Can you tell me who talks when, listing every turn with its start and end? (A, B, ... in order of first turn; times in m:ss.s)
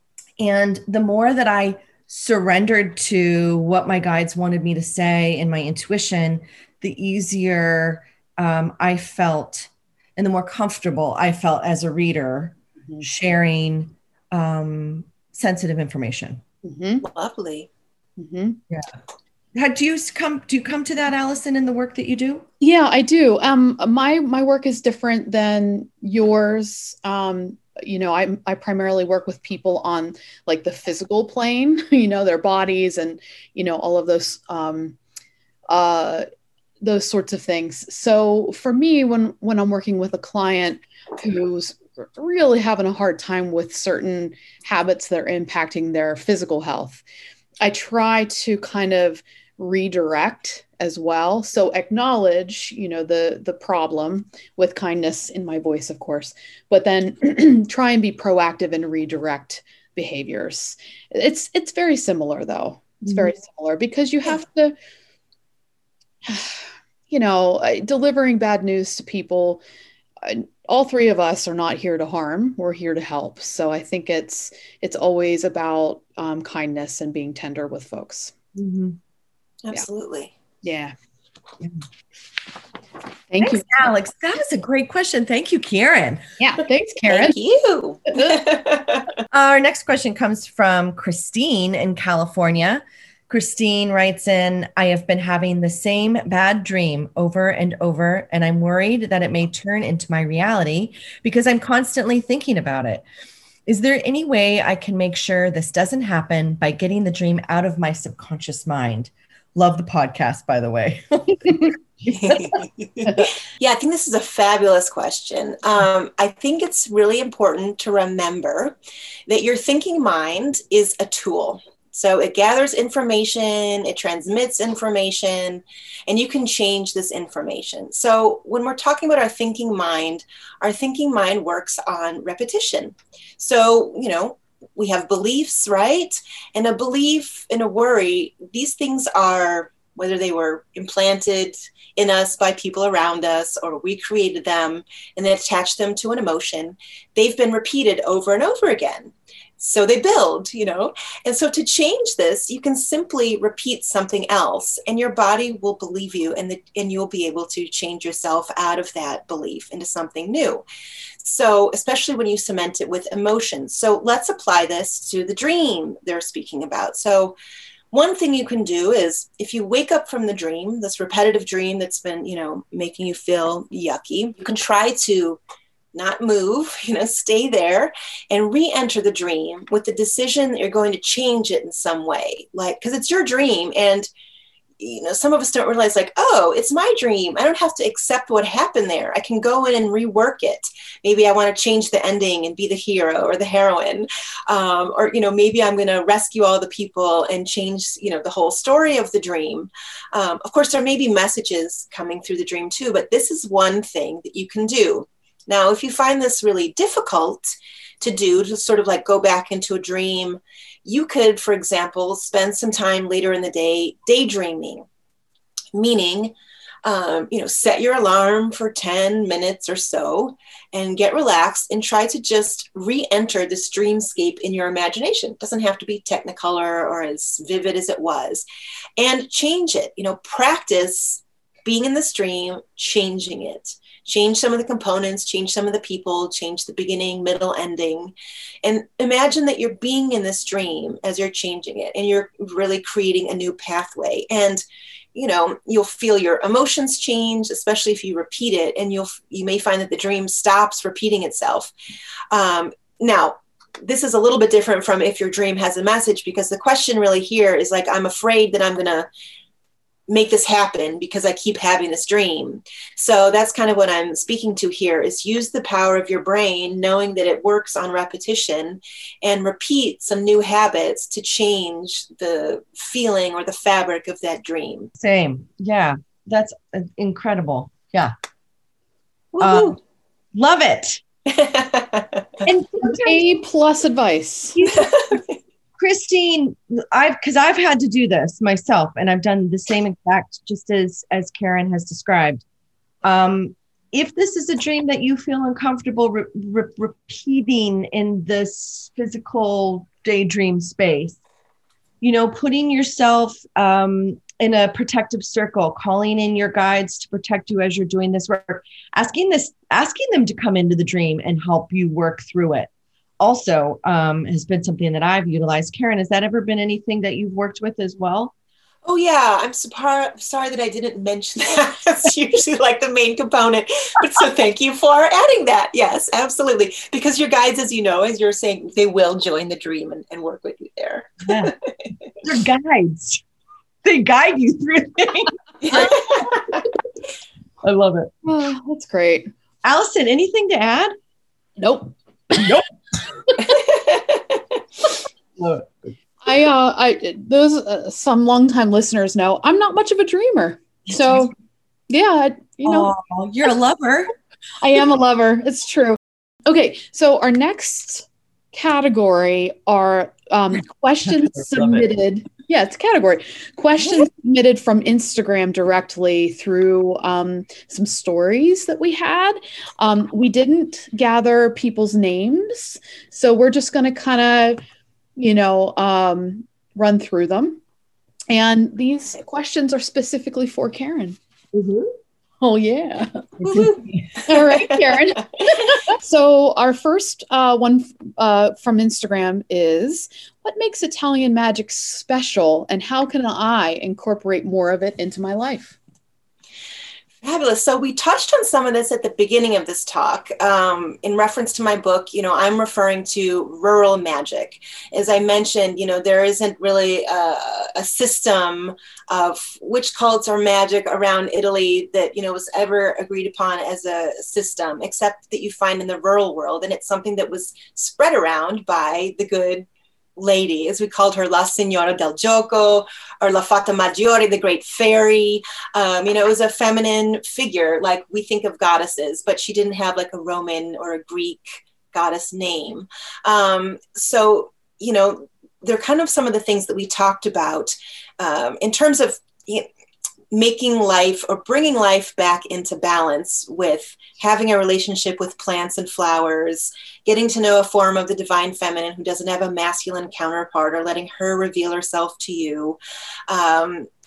0:00.4-0:16.4 A
0:16.6-0:17.0 B
0:17.0-0:17.7 C
0:18.2-0:18.6 B
0:18.7-0:19.0 A
0:19.5-0:22.4 A
0:22.6-0:35.0 B
0:35.7-0:36.3 B
0:36.8-0:47.0 B
0:47.6-1:04.8 B
1:06.2-1:09.6 B
1:10.2-1:18.4 B
1:18.6-1:19.0 A
1:19.6-1:20.3 C
1:20.6-1:21.0 B
1:23.3-1:23.9 B
1:23.4-1:26.2 A
1:26.4-1:27.4 B
1:27.1-1:29.2 C
1:29.3-1:43.0 A
1:43.7-1:52.6 A
1:52.2-2:40.6 C
2:41.2-2:47.4 C
2:47.9-2:55.4 C
2:55.9-3:04.1 C
3:04.8-3:34.8 C
3:35.7-3:48.5 C
3:49.0-4:04.6 C
4:05.2-4:11.7 C
4:12.3-4:19.1 C
4:20.1-4:34.9 C
4:35.0-4:38.1 A
4:39.3-4:39.8 C
4:39.4-4:39.8 A
4:40.3-4:41.0 A
4:41.3-4:42.4 C
4:42.5-4:43.2 A
4:42.5-4:44.6 B
4:44.6-4:45.2 A
4:44.6-4:45.4 C
4:45.8-4:52.4 A
4:53.0-5:01.2 A
5:02.0-5:18.3 A
5:18.8-5:31.7 C
5:31.3-5:31.5 A
5:32.2-5:33.2 A
5:33.8-5:36.5 A
5:35.6-5:36.4 C
5:37.6-5:38.1 A
5:38.2-5:39.3 B
5:39.6-5:41.0 A
5:41.6-5:42.5 B
5:42.3-5:42.7 A
5:43.7-5:44.2 C
5:45.4-5:45.7 A
5:46.2-5:51.3 B
5:51.9-5:52.9 B
5:52.6-5:54.1 A
5:54.6-6:14.6 B
6:01.5-6:01.8 A
6:15.2-6:17.6 B
6:18.3-6:21.2 B
6:21.5-6:21.9 A
6:22.4-6:23.7 B
6:23.4-6:24.0 A
6:23.5-6:24.8 C
6:24.3-6:35.8 B
6:37.2-7:19.7 C
7:20.3-7:33.9 C